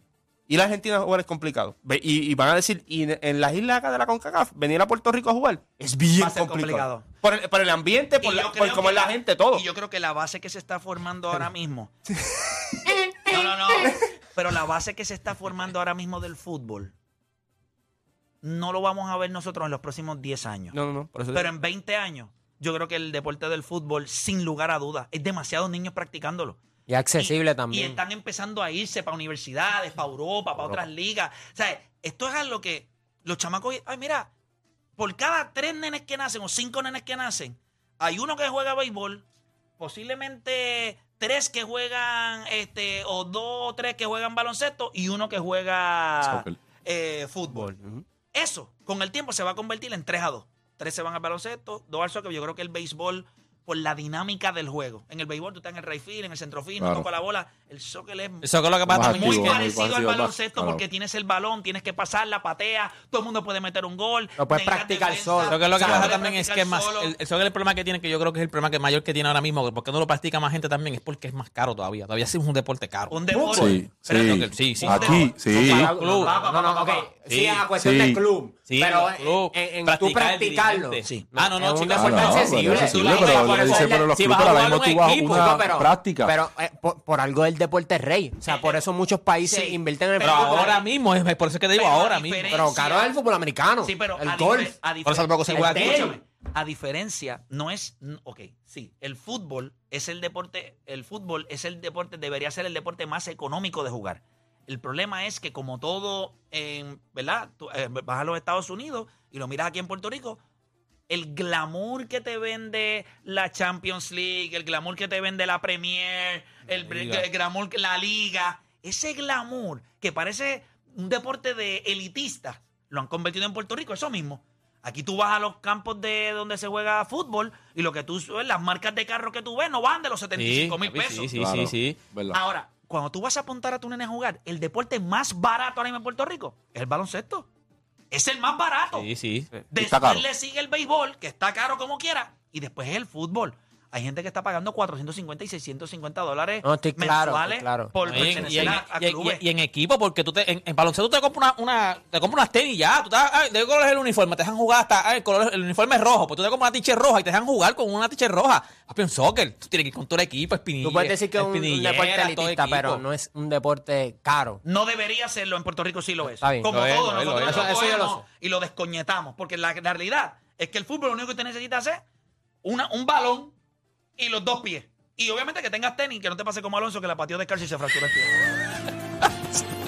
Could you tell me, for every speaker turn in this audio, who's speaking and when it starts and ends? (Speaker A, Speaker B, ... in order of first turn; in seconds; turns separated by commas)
Speaker A: 0.5-9.6, Speaker B: 6.2-7.0, Speaker B: 8.2-11.9, Speaker A: 12.1-13.4, Speaker B: 13.3-16.9, Speaker B: 18.4-20.8, Speaker A: 20.7-21.5, Speaker B: 21.3-26.6, Speaker C: 26.9-28.0, Speaker B: 27.2-34.3, Speaker B: 35.0-39.2, Speaker B: 39.8-47.7, Speaker D: 46.2-46.6, Speaker A: 47.5-48.0, Speaker B: 48.3-67.1, Speaker D: 56.8-57.1, Speaker E: 58.4-59.5, Speaker D: 58.9-60.8, Speaker C: 64.4-65.6, Speaker E: 65.5-73.2, Speaker D: 65.8-66.1, Speaker B: 73.1-77.1, Speaker C: 73.3-73.8, Speaker D: 73.5-75.9, Speaker E: 74.1-76.3, Speaker C: 75.5-84.1, Speaker E: 77.3-77.6, Speaker D: 77.8-78.2, Speaker E: 78.7-85.5, Speaker D: 81.9-86.3, Speaker B: 82.8-83.9, Speaker C: 85.3-90.7, Speaker B: 88.5-88.8, Speaker B: 89.4-90.9, Speaker E: 90.2-92.6, Speaker B: 91.7-93.1, Speaker C: 92.5-94.8, Speaker B: 93.8-110.4, Speaker E: 95.0-96.1, Speaker C: 95.5-96.2, Speaker B: 111.1-131.3, Speaker A: 116.7-117.3, Speaker E: 130.3-132.0, Speaker D: 131.3-132.4, Speaker B: 132.3-137.4, Speaker B: 138.1-139.1, Speaker E: 138.9-139.5, Speaker B: 139.7-149.4, Speaker D: 139.7-140.2, Speaker C: 146.6-148.8, Speaker E: 148.1-163.0, Speaker C: 160.8-164.6, Speaker B: 164.6-172.0, Speaker C: 166.3-166.7, Speaker E: 166.6-167.7, Speaker C: 167.4-168.2, Speaker B: 172.6-173.5, Speaker B: 174.2-178.3